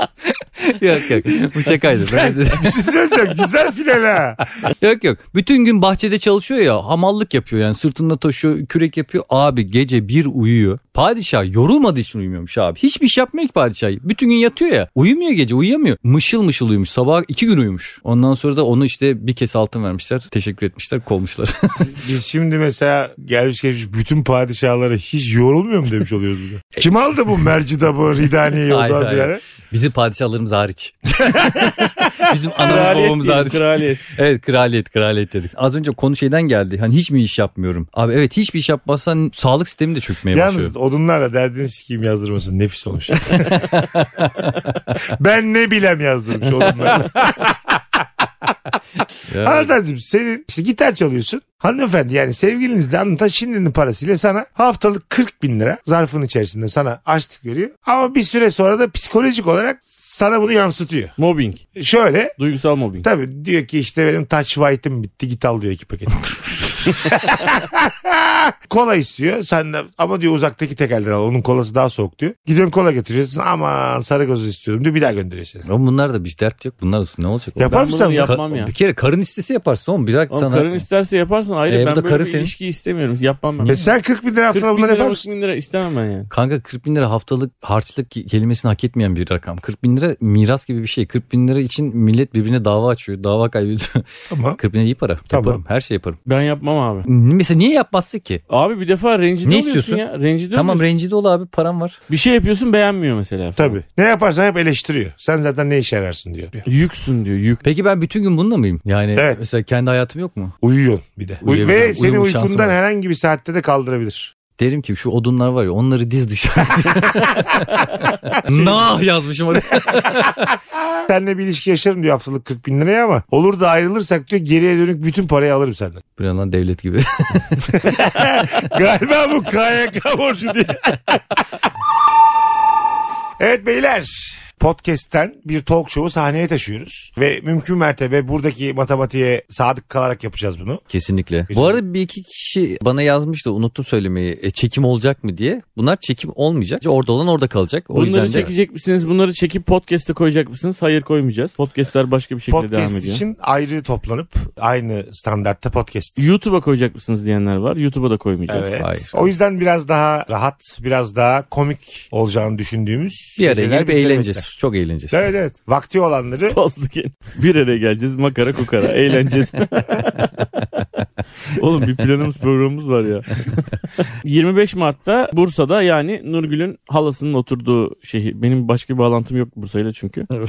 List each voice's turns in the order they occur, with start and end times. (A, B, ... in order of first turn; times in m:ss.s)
0:00.4-0:02.8 A
0:01.7-0:04.5 B
0:04.6-0:22.0 A
0:21.8-0:29.4 B
0:28.6-0:40.7 A
0:31.2-0:32.3 B
0:32.6-0:34.0 C
0:40.3-0:43.9 B
0:43.3-0:44.8 A
0:44.9-0:48.5 B
0:49.3-0:49.7 A
0:49.4-1:01.1 B
1:01.2-1:01.6 C
1:01.8-1:02.3 B
1:02.4-1:03.1 C
1:03.0-1:15.6 B
1:15.6-1:20.8 A
1:17.6-1:18.3 B
1:17.7-1:18.7 C
1:20.3-1:23.8 C
1:21.7-1:22.5 A
1:23.6-1:25.2 B
1:24.5-1:26.3 C
1:26.3-1:36.2 A
1:34.3-1:34.6 B
1:35.3-1:35.6 B
1:36.2-1:37.1 C
1:37.0-1:38.4 A
1:38.5-1:40.8 C
1:39.4-1:40.0 A
1:40.5-1:42.0 A
1:42.1-1:43.8 C
1:43.6-1:46.6 B
1:46.6-1:47.6 C
1:47.6-1:50.5 A
1:49.1-1:49.4 B
1:50.6-1:54.3 B
1:51.4-1:52.8 A
1:54.6-2:00.5 A
1:56.9-1:57.6 B
1:58.2-1:58.9 B
1:59.8-2:00.2 B
2:00.8-2:06.0 B
2:06.2-2:08.0 A
2:07.7-2:11.4 B
2:13.4-2:20.8 B
2:20.9-2:28.5 A
2:21.5-2:21.8 B
2:27.9-2:33.2 C
2:32.5-2:36.3 B
2:36.2-2:38.7 C
2:38.5-2:44.5 B
2:38.8-2:39.2 A
2:43.4-2:45.2 A
2:45.1-2:46.6 B
2:46.4-2:50.5 C
2:51.5-3:00.3 C